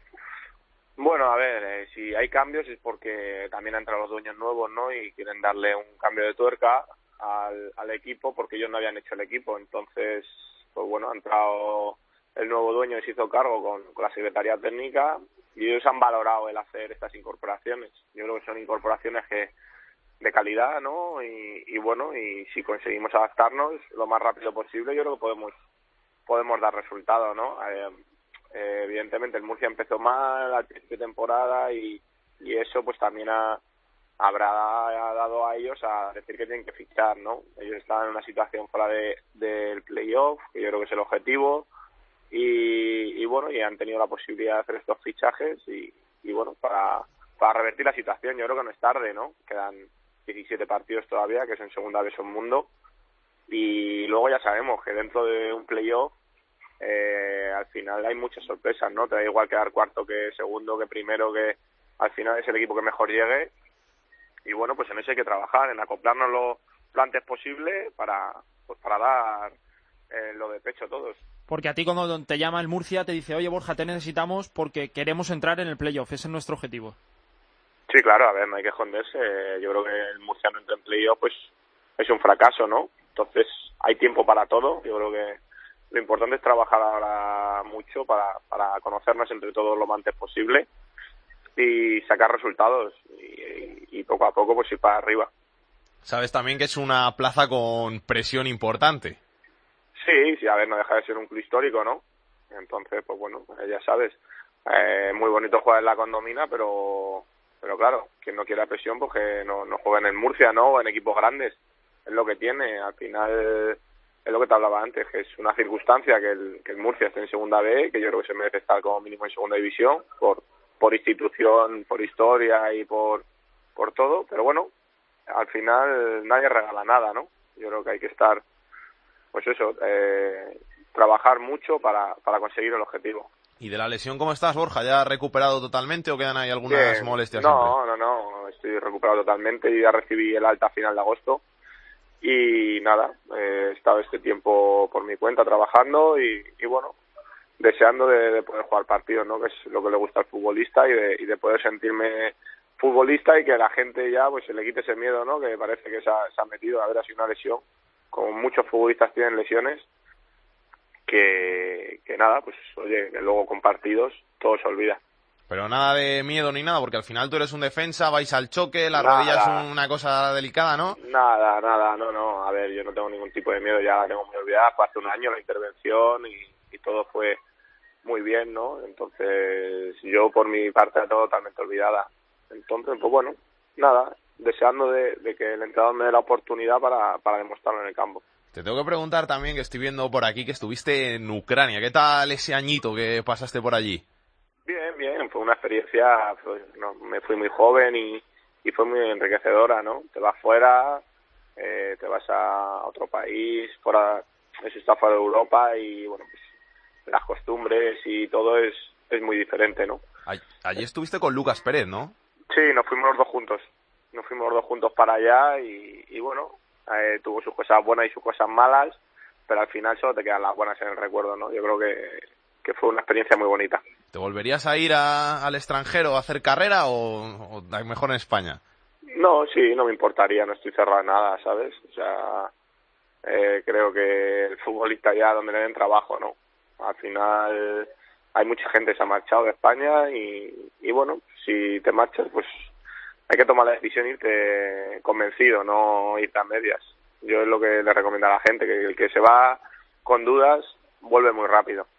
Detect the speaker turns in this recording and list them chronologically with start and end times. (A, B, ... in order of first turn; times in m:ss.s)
0:01.0-0:19.5 A
0:20.2-0:25.6 A
0:26.3-0:28.0 A
0:28.5-0:33.6 A
0:34.2-0:41.7 A
0:42.3-0:52.7 A
0:53.5-0:56.1 A
0:56.8-1:03.5 A
1:04.4-1:09.6 A
1:10.1-1:11.2 A
1:11.5-1:17.0 B
1:17.9-1:25.4 A
1:25.9-1:30.7 A
1:31.6-1:35.3 A
1:36.0-1:39.2 C
1:40.0-2:03.2 A
2:03.8-2:04.7 A
2:05.3-2:08.4 A
2:09.3-2:13.3 A
2:13.6-2:17.8 C
2:16.7-2:21.4 A
2:22.2-2:27.0 A
2:27.6-2:39.9 A
2:41.1-2:45.0 A
2:45.5-2:51.0 C
2:49.0-2:49.6 A
2:51.0-2:57.4 A
2:58.0-3:08.2 A
3:08.5-3:14.0 C
3:14.7-3:21.0 A
3:21.6-3:26.4 A
3:27.1-3:30.0 A
3:30.3-3:32.1 C
3:32.5-3:43.8 A
3:44.1-3:48.6 C
3:49.2-3:52.5 A
3:53.2-4:02.5 A
4:03.3-4:11.9 A